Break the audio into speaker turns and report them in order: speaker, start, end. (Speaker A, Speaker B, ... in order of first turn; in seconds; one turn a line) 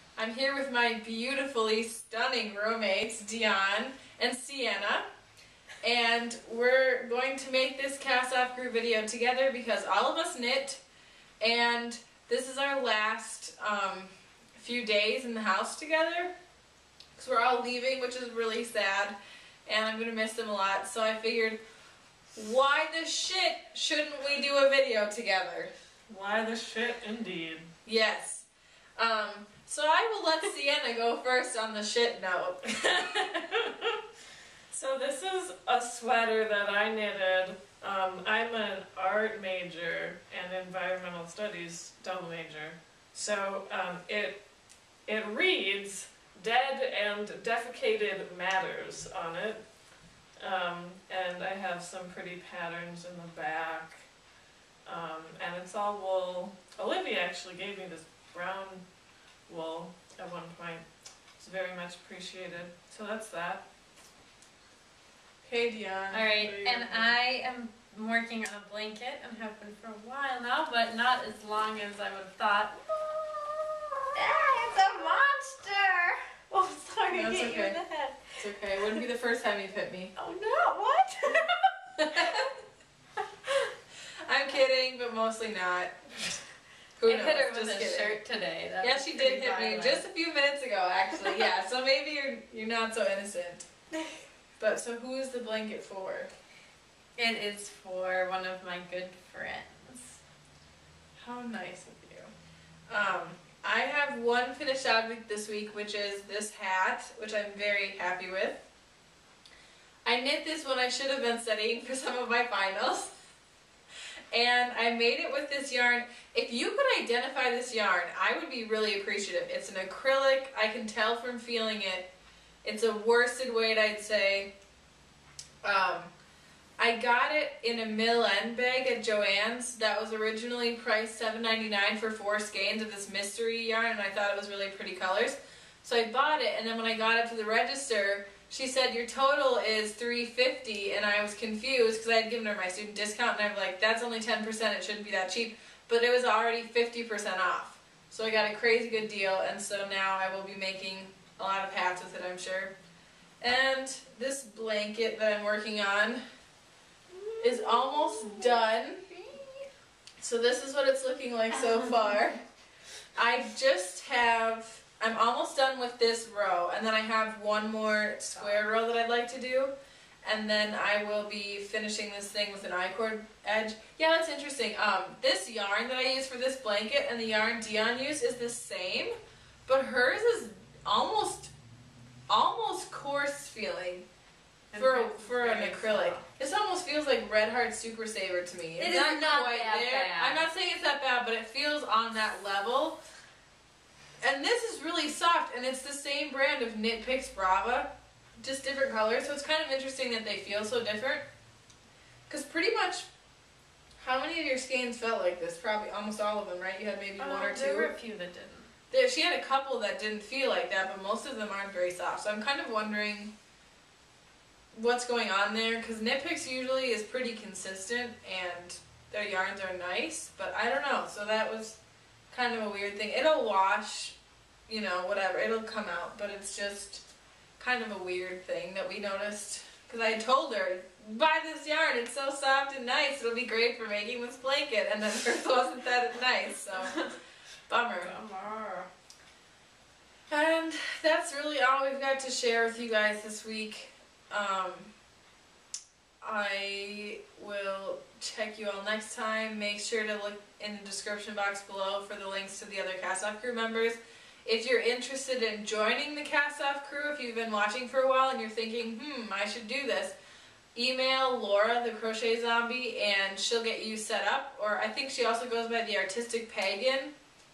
Speaker A: 0.2-5.1
Speaker A: 5.8-10.8
Speaker A: 11.4-16.3
Speaker A: 17.1-21.6
Speaker A: 22.4-25.7
Speaker B: 26.1-27.7
Speaker A: 27.9-33.6
Speaker B: 33.1-33.6
Speaker B: 34.7-44.4
Speaker B: 45.1-49.8
Speaker B: 50.4-54.1
Speaker B: 54.9-58.8
Speaker B: 59.5-63.6
Speaker A: 65.4-67.1
Speaker C: 66.1-78.3
Speaker A: 77.1-77.8
Speaker A: 78.4-80.1
Speaker C: 80.2-81.7
Speaker A: 82.0-82.5
Speaker A: 84.2-86.4
Speaker A: 87.0-88.2
Speaker C: 87.0-90.0
Speaker A: 88.8-93.7
Speaker A: 94.6-96.3
Speaker C: 97.2-100.2
Speaker A: 101.2-102.3
Speaker A: 102.9-108.6
Speaker A: 110.0-113.2
Speaker A: 114.3-122.1
Speaker A: 122.6-124.5
Speaker A: 125.6-126.1
Speaker A: 126.8-152.7
Speaker A: 153.4-156.2
Speaker C: 157.1-159.7
Speaker A: 157.4-159.1
Speaker A: 160.2-162.4
Speaker A: 163.2-169.7
Speaker C: 168.4-168.6
Speaker A: 170.2-179.1
Speaker A: 179.7-181.5
Speaker A: 182.3-184.1
Speaker C: 184.7-186.3
Speaker A: 184.8-193.0
Speaker C: 188.8-190.5
Speaker A: 194.2-201.2
Speaker A: 202.3-203.1
Speaker A: 204.0-207.9
Speaker C: 207.2-208.7
Speaker A: 208.9-213.3
Speaker A: 214.7-221.8
Speaker A: 222.3-224.2
Speaker A: 224.7-227.0
Speaker A: 227.6-237.0
Speaker C: 236.8-237.1
Speaker A: 237.7-238.1
Speaker C: 238.0-238.9
Speaker A: 240.3-244.9
Speaker A: 246.2-260.2
Speaker A: 260.8-267.1